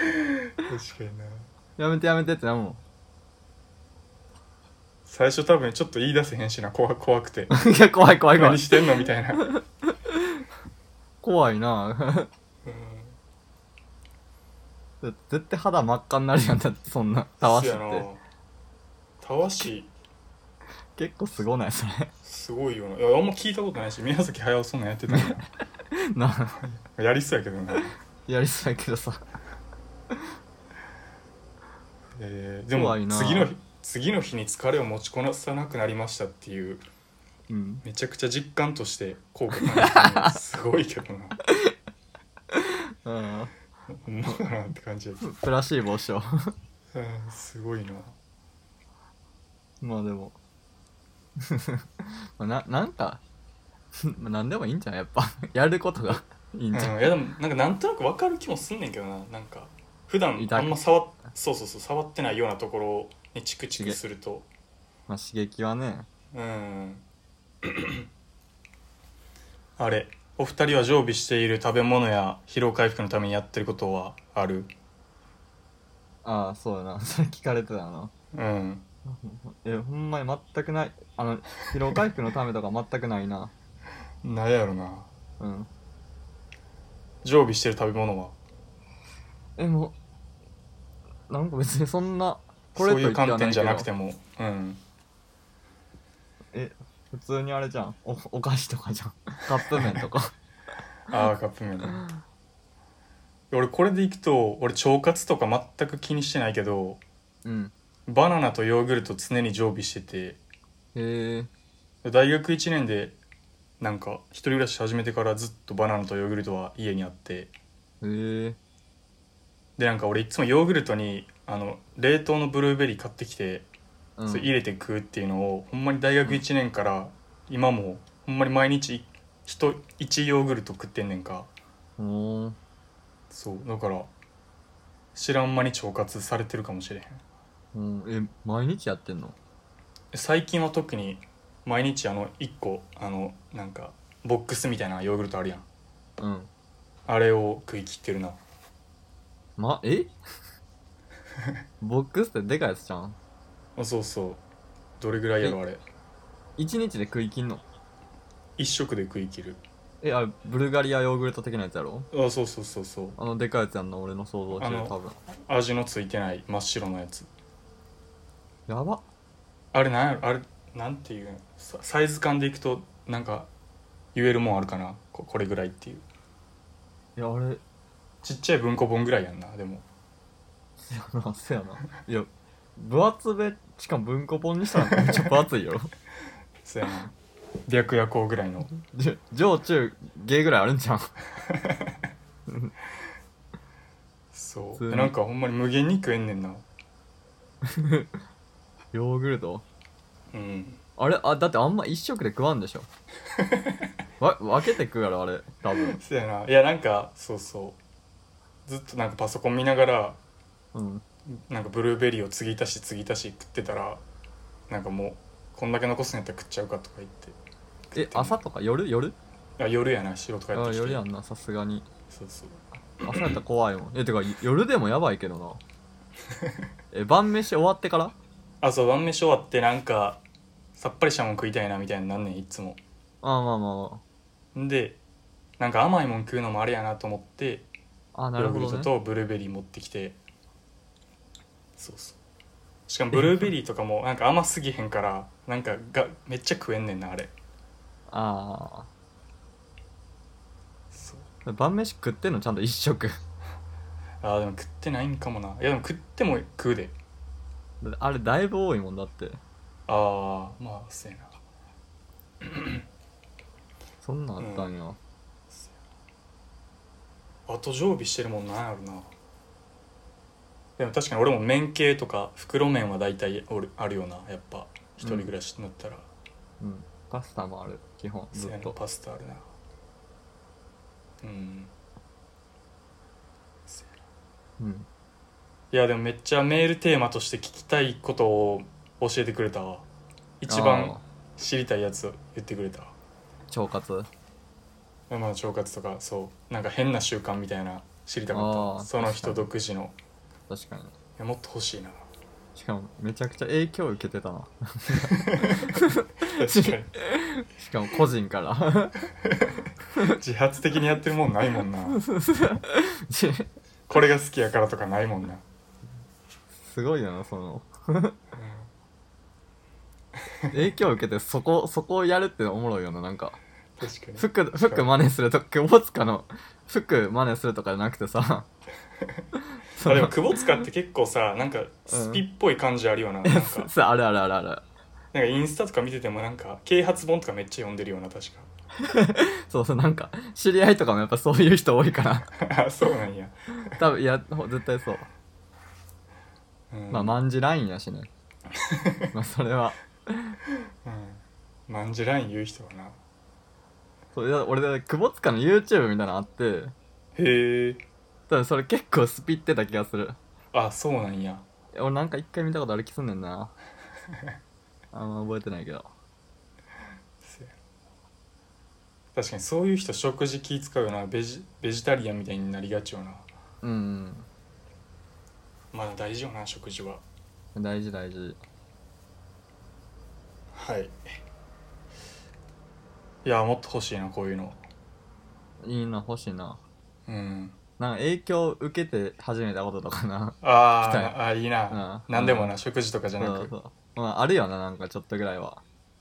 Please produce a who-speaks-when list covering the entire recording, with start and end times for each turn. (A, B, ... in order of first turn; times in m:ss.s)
0:00.6-0:01.5 A
0:01.8-0:02.8 B
0:05.0-0:07.5 A
0:07.5-0:08.9 B
0:08.3-0:09.5 A
0:09.9-0:10.4 B
0:11.2-0:12.3 B
0:12.6-0:13.2 A
0:15.0-0:18.1 B
0:17.4-0:18.2 A
0:19.2-0:19.9 A
0:21.0-0:22.1 B
0:22.2-0:25.4 A
0:25.9-0:26.6 B
0:26.6-0:27.9 A
0:28.2-0:29.2 B
0:32.2-0:36.8 A
0:32.7-0:33.5 B
0:37.5-0:37.8 B
0:37.8-0:41.4 A
0:39.7-0:40.3 B
0:42.5-0:43.5 B
0:44.0-0:45.3 A
0:45.2-0:46.5 B
0:46.9-0:48.1 A
0:49.8-0:50.4 B
0:51.4-0:53.2 B
0:54.1-0:57.0 B
0:56.7-1:04.5 A
1:00.4-1:00.8 B
1:05.1-1:06.1 B
1:06.3-1:07.0 A
1:07.6-1:08.0 A
1:09.8-1:14.7 A
1:16.2-1:18.1 B
1:18.3-1:18.8 A
1:19.1-1:23.5 B
1:24.2-1:25.1 A
1:25.4-1:25.7 B
1:27.2-1:28.4 A
1:29.6-1:29.9 B
1:31.3-1:33.9 B
1:32.7-1:34.8 A
1:36.5-1:40.3 B
1:39.5-1:40.0 A
1:41.1-1:42.0 A
1:43.5-1:47.0 A
1:47.4-1:47.7 B
1:48.1-1:50.4 A
1:50.9-1:51.5 B
1:52.0-1:53.2 A
1:53.8-1:57.5 A
1:58.0-1:58.6 B
1:59.8-2:03.7 A
2:04.2-2:04.5 B
2:04.3-2:11.5 A
2:12.0-2:12.6 B
2:13.3-2:14.1 A
2:15.1-2:17.2 A
2:17.7-2:19.4 B
2:20.1-2:25.6 A
2:26.2-2:26.5 B
2:27.1-2:28.4 A
2:29.6-2:30.2 B
2:31.8-2:33.2 B
2:33.8-2:34.4 A
2:35.0-2:35.8 A
2:36.6-2:37.6 B
2:38.6-2:39.6 A
2:40.0-2:42.1 B
2:42.1-2:43.2 A
2:43.2-2:45.2 B
2:44.5-2:47.3 A
2:48.7-2:49.0 B
2:49.7-2:53.5 A
2:54.1-2:56.0 A
2:57.2-2:57.6 B
2:58.2-2:59.8 A
3:00.9-3:05.9 B
3:05.0-3:05.4 A
3:06.6-3:07.1 A
3:07.7-3:08.7 A
3:08.8-3:11.1 B
3:12.5-3:12.7 B
3:14.3-3:16.6 A
3:14.8-3:15.1 B
3:17.7-3:18.1 B
3:18.9-3:19.6 B
3:20.3-3:20.8 A
3:21.0-3:22.9 B
3:23.4-3:23.9 A
3:24.2-3:26.0 B
3:25.7-3:27.8 A
3:28.6-3:30.2 A
3:30.7-3:31.0 B
3:31.5-3:34.0 A
3:34.7-3:37.4 A
3:37.9-3:38.4 A
3:37.9-3:39.2 B
3:39.6-3:41.0 A
3:40.5-3:41.9 B
3:42.1-3:43.4 A
3:43.0-3:45.6 B
3:46.9-3:48.1 B
3:48.6-3:50.2 A
3:50.8-3:52.8 A
3:53.2-3:54.0 B
3:54.5-3:55.0 A
3:55.6-3:57.7 A
3:58.1-3:58.9 B
3:58.4-4:00.2 A
4:01.8-4:02.2 A
4:02.9-4:07.3 A
4:08.1-4:08.9 B
4:10.9-4:11.3 A
4:11.4-4:13.2 B
4:14.2-4:17.0 A
4:17.8-4:19.4 B
4:19.9-4:21.3 A
4:22.4-4:22.8 A
4:24.0-4:25.0 B
4:24.4-4:24.7 A
4:25.5-4:25.8 A
4:27.5-4:29.1 A
4:30.8-4:36.1 A
4:35.0-4:35.3 B
4:36.6-4:38.8 B
4:38.3-4:39.5 A
4:41.2-4:41.7 A
4:44.6-4:44.9 B
4:45.7-4:49.9 A
4:50.4-4:52.9 A
4:50.5-4:51.0 B
4:53.5-4:54.1 B
4:55.1-4:59.9 A
4:58.3-4:59.5 B
5:00.5-5:00.9 B
5:01.2-5:02.0 A
5:02.5-5:09.0 B
5:05.0-5:06.9 A
5:09.2-5:12.0 A
5:11.9-5:13.5 B
5:13.9-5:15.4 A
5:16.5-5:18.2 B
5:18.3-5:18.7 A
5:20.5-5:23.4 B
5:23.8-5:24.9 A
5:24.2-5:28.5 B
5:29.8-5:30.6 B
5:29.8-5:33.7 A
5:31.9-5:32.2 B
5:33.2-5:34.6 B
5:35.1-5:38.5 A
5:38.8-5:42.3 B
5:42.4-5:43.8 A
5:43.8-5:45.1 B
5:46.7-5:47.2 A
5:46.9-5:48.1 B
5:48.6-5:49.1 A
5:49.1-5:50.4 B
5:50.8-5:53.0 A
5:54.1-5:56.7 B
5:57.2-5:57.8 A
5:58.3-6:00.2 B
6:00.5-6:01.4 A
6:01.7-6:03.5 B
6:04.9-6:05.9 B
6:07.2-6:07.5 A
6:09.1-6:13.3 A
6:13.6-6:14.3 B
6:15.7-6:17.0 A
6:17.5-6:18.4 B
6:20.5-6:21.0 A
6:23.2-6:24.6 A
6:25.6-6:26.6 B
6:27.0-6:27.6 A
6:27.8-6:31.2 B
6:30.4-6:33.5 A
6:31.7-6:32.5 B
6:33.2-6:35.6 B